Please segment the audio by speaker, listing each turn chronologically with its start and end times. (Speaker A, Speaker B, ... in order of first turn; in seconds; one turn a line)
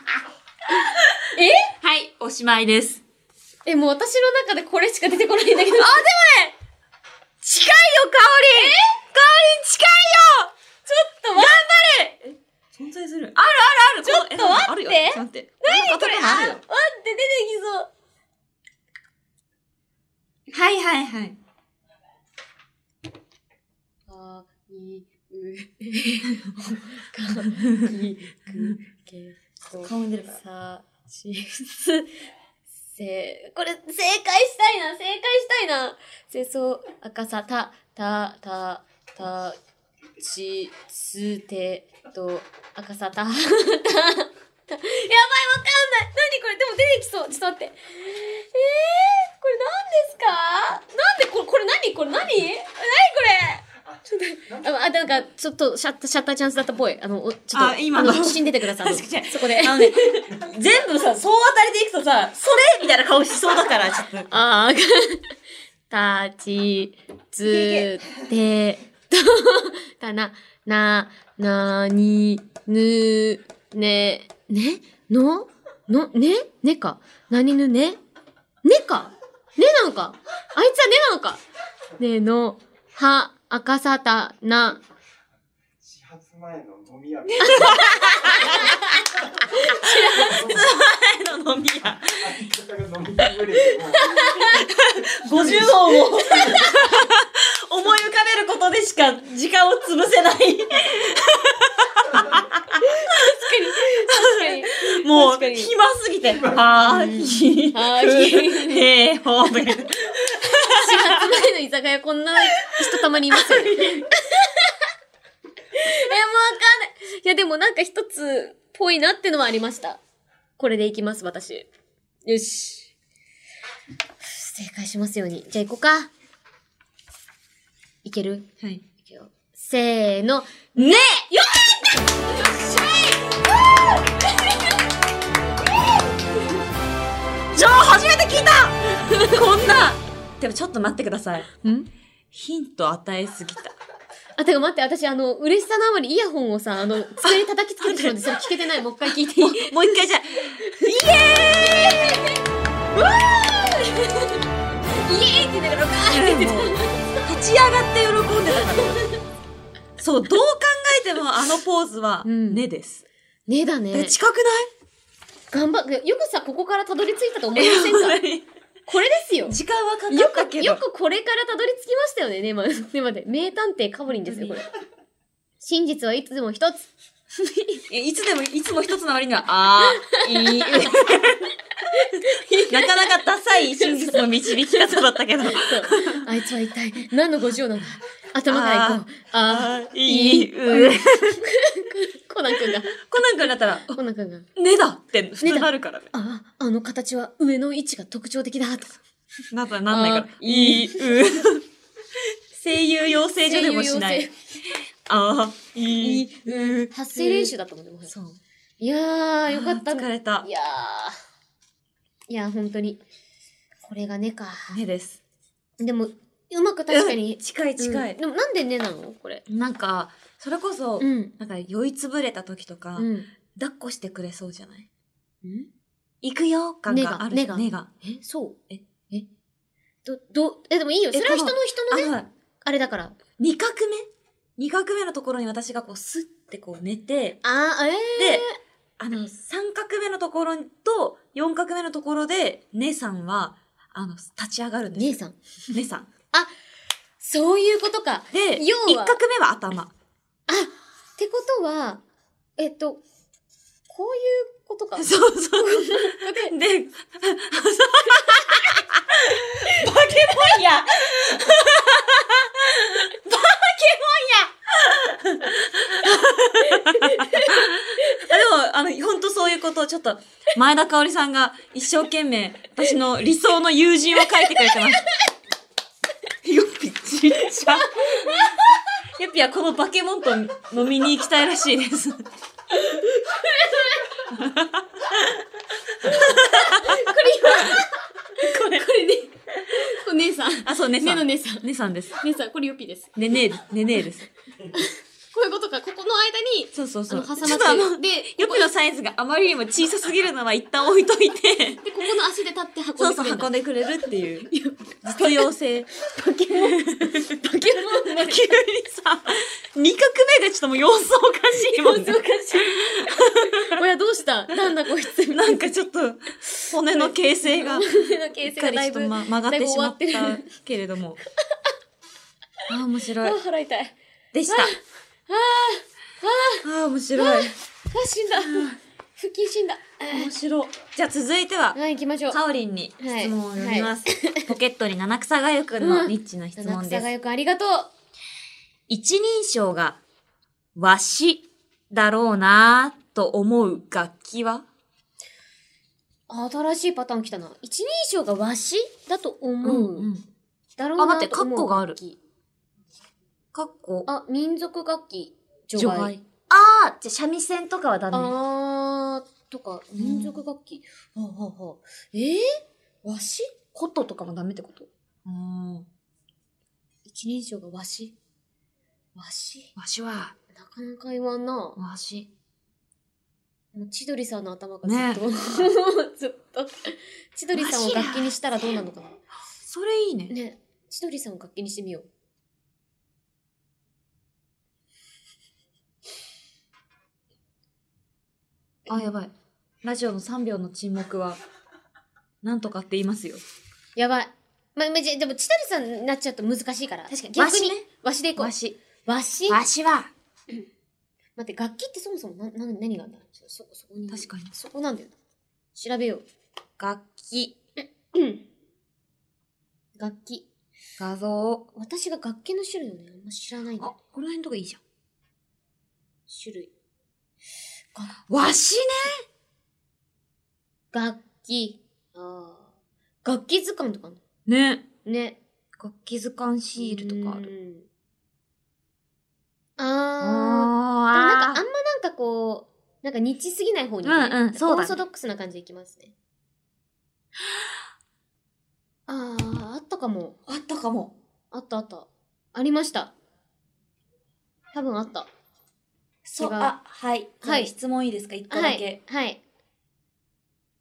Speaker A: 1.3-1.7
Speaker B: 1.8-3.0
Speaker A: 3.6-6.0
Speaker B: 5.7-6.5
Speaker B: 7.4-10.5
Speaker A: 8.5-9.0
Speaker A: 10.8-11.6
Speaker B: 11.3-16.6
Speaker A: 14.0-17.9
Speaker B: 20.5-21.4
Speaker A: 24.1-32.1
Speaker B: 29.8-30.4
Speaker A: 32.8-39.6
Speaker A: 40.2-60.0
Speaker B: 57.5-64.3
Speaker A: 64.3-65.3
Speaker A: 65.9-78.0
Speaker B: 67.4-68.2
Speaker A: 78.6-81.4
Speaker A: 82.0-84.8
Speaker C: 85.8-88.2
Speaker B: 87.3-89.0
Speaker A: 87.4-90.5
Speaker B: 89.5-92.5
Speaker C: 90.2-90.7
Speaker C: 92.2-94.3
Speaker A: 94.0-94.7
Speaker B: 94.5-102.8
Speaker A: 96.2-96.9
Speaker A: 102.8-105.7
Speaker B: 103.9-111.5
Speaker A: 106.8-108.9
Speaker A: 110.6-114.8
Speaker B: 112.6-114.1
Speaker A: 115.7-120.0
Speaker A: 120.6-121.7
Speaker A: 122.2-122.9
Speaker A: 124.2-126.1
Speaker A: 128.0-128.5
Speaker A: 129.0-133.5
Speaker B: 130.7-131.3
Speaker B: 137.5-141.5
Speaker A: 139.0-139.4
Speaker A: 141.6-141.9
Speaker B: 142.3-143.7
Speaker A: 144.4-149.8
Speaker B: 147.2-148.4
Speaker B: 149.1-152.3
Speaker A: 150.6-152.4
Speaker A: 152.9-157.2
Speaker B: 156.1-159.0
Speaker B: 160.0-163.0
Speaker A: 162.2-162.6
Speaker A: 163.5-164.2
Speaker B: 163.9-164.7
Speaker A: 165.5-168.2
Speaker B: 167.5-168.4
Speaker A: 168.9-169.6
Speaker B: 169.4-170.8
Speaker A: 170.1-174.7
Speaker B: 174.2-174.6
Speaker A: 175.6-176.9
Speaker B: 177.8-186.2
Speaker A: 179.9-181.1
Speaker A: 181.9-193.0
Speaker B: 188.5-191.4
Speaker B: 192.7-194.0
Speaker A: 193.9-194.5
Speaker B: 194.6-196.1
Speaker A: 195.4-199.0
Speaker B: 199.5-201.6
Speaker A: 199.9-201.2
Speaker B: 202.5-204.3
Speaker A: 203.4-204.3
Speaker B: 205.1-207.5
Speaker A: 205.9-208.1
Speaker B: 208.1-208.4
Speaker A: 208.8-211.2
Speaker B: 209.5-210.5
Speaker A: 212.3-213.0
Speaker A: 213.8-214.8
Speaker B: 214.7-215.2
Speaker A: 215.8-219.4
Speaker B: 216.9-218.2
Speaker B: 219.5-224.9
Speaker A: 221.0-221.3
Speaker A: 223.0-223.3
Speaker A: 225.4-225.7
Speaker B: 226.2-227.9
Speaker A: 226.9-228.6
Speaker A: 230.0-233.2
Speaker B: 231.1-232.3
Speaker B: 233.4-237.4
Speaker A: 237.4-238.6
Speaker B: 238.2-238.4
Speaker B: 239.0-245.2
Speaker A: 244.9-245.4
Speaker B: 245.7-246.1
Speaker A: 247.2-249.2
Speaker B: 248.3-249.9
Speaker A: 250.5-252.0
Speaker A: 252.6-253.0
Speaker A: 253.9-256.5
Speaker B: 255.0-263.4
Speaker A: 263.3-264.5
Speaker B: 264.7-275.1
Speaker A: 266.7-268.2
Speaker A: 274.4-274.7
Speaker B: 276.4-278.4
Speaker A: 277.7-278.6
Speaker B: 279.1-282.2
Speaker A: 282.8-284.2
Speaker B: 284.3-285.4
Speaker B: 286.0-287.8
Speaker A: 286.1-293.1
Speaker B: 288.4-288.9
Speaker B: 290.6-292.2
Speaker B: 293.1-294.3
Speaker A: 294.7-298.7
Speaker B: 296.7-301.8
Speaker A: 301.8-303.5
Speaker B: 303.0-304.5
Speaker A: 304.5-305.5
Speaker B: 305.0-305.9
Speaker A: 306.0-308.6
Speaker B: 306.6-313.8
Speaker A: 311.5-315.6
Speaker B: 315.3-321.2
Speaker A: 316.6-320.5
Speaker B: 322.7-323.4
Speaker A: 323.2-323.9
Speaker B: 324.3-324.7
Speaker A: 324.5-326.6
Speaker B: 326.6-327.5
Speaker A: 327.2-330.3
Speaker B: 328.3-328.8
Speaker B: 330.1-331.8
Speaker A: 331.7-332.4
Speaker B: 332.3-337.1
Speaker A: 333.0-334.5
Speaker A: 335.8-337.9
Speaker B: 338.9-340.0
Speaker B: 340.7-344.6
Speaker A: 346.3-350.1
Speaker B: 349.6-350.2
Speaker A: 350.8-352.2
Speaker B: 351.0-352.0
Speaker B: 353.5-354.1
Speaker A: 354.1-356.1
Speaker B: 355.7-358.3
Speaker A: 358.1-363.6
Speaker B: 360.0-360.4
Speaker B: 363.7-365.9
Speaker A: 367.1-368.1
Speaker A: 369.1-369.7
Speaker B: 369.8-370.4
Speaker A: 370.5-371.8
Speaker B: 371.8-372.3
Speaker A: 373.7-379.2
Speaker B: 374.8-375.2
Speaker B: 377.5-378.3
Speaker B: 379.6-380.3
Speaker A: 380.3-382.1
Speaker B: 388.9-389.3
Speaker B: 389.8-391.4
Speaker B: 392.4-393.4
Speaker A: 393.9-398.5
Speaker B: 397.1-397.8
Speaker B: 398.4-398.8
Speaker A: 399.1-399.6
Speaker B: 399.5-400.1
Speaker A: 401.4-405.1
Speaker B: 404.1-404.5
Speaker A: 405.7-406.2
Speaker B: 406.8-407.6
Speaker A: 407.8-408.4
Speaker A: 410.0-410.4
Speaker B: 411.0-411.7
Speaker A: 411.7-413.9
Speaker B: 413.8-414.8
Speaker A: 416.3-416.7
Speaker A: 417.9-418.2
Speaker B: 418.3-419.2
Speaker A: 420.9-422.7
Speaker A: 423.2-424.2
Speaker B: 424.5-424.8
Speaker A: 425.0-425.4
Speaker B: 425.8-427.5
Speaker A: 426.8-427.9
Speaker A: 429.8-436.1
Speaker B: 430.2-431.6
Speaker B: 434.0-435.0
Speaker A: 439.1-440.4
Speaker B: 440.5-441.1
Speaker A: 441.5-443.1
Speaker A: 444.7-445.3
Speaker B: 446.2-449.0
Speaker A: 446.4-446.7
Speaker A: 447.4-447.7
Speaker A: 448.5-449.4